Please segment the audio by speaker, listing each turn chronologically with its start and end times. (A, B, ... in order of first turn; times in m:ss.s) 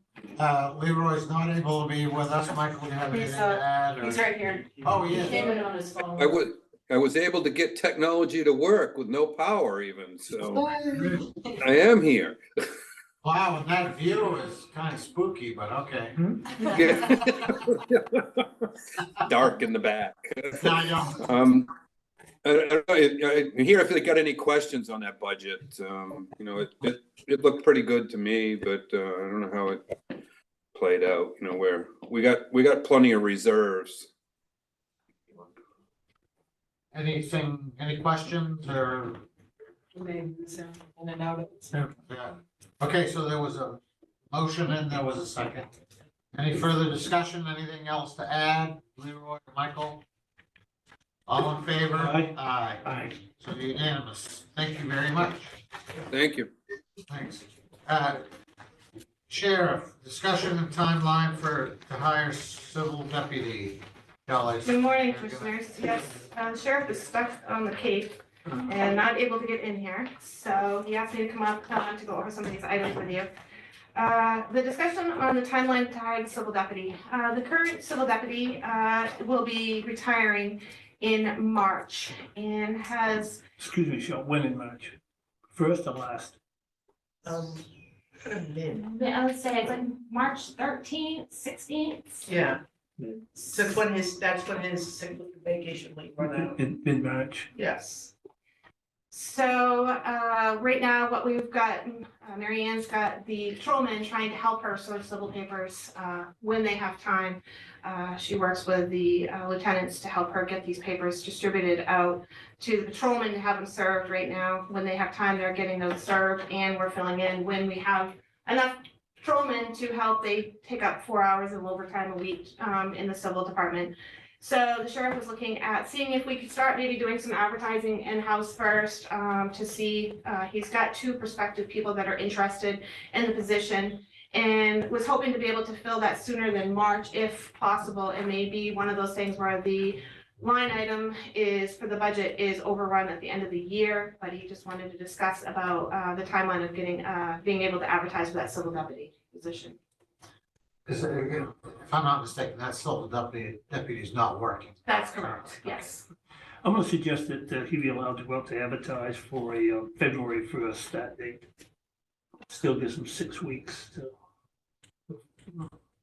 0:00.4-0:05.7 A
0:03.1-0:06.5 B
0:06.2-0:11.1 C
0:11.0-0:11.3 A
0:11.6-0:12.4 C
0:13.2-0:17.2 A
0:16.7-0:18.5 C
0:19.2-0:21.7 C
0:20.6-0:21.3 A
0:22.4-0:29.8 C
0:30.7-0:34.1 C
0:36.9-0:39.2 A
0:40.0-0:41.7 B
0:42.1-0:43.8 A
0:44.3-0:45.7 A
0:46.3-0:50.0 A
0:51.3-0:55.6 A
0:51.9-0:52.4 D
0:56.1-0:56.5 C
0:57.1-0:58.2 A
0:59.3-1:05.5 A
1:04.6-1:13.3 E
1:14.0-1:23.4 E
1:23.6-1:25.0 D
1:25.5-1:26.4 D
1:27.2-1:27.6 F
1:28.2-1:28.8 F
1:28.7-1:32.3 E
1:32.3-1:32.6 F
1:33.4-1:36.6 F
1:36.2-1:37.5 D
1:37.6-1:38.1 F
1:39.1-2:29.8 E
2:30.9-2:35.6 A
2:34.9-2:36.1 E
2:36.6-2:41.5 D
2:42.5-2:44.1 D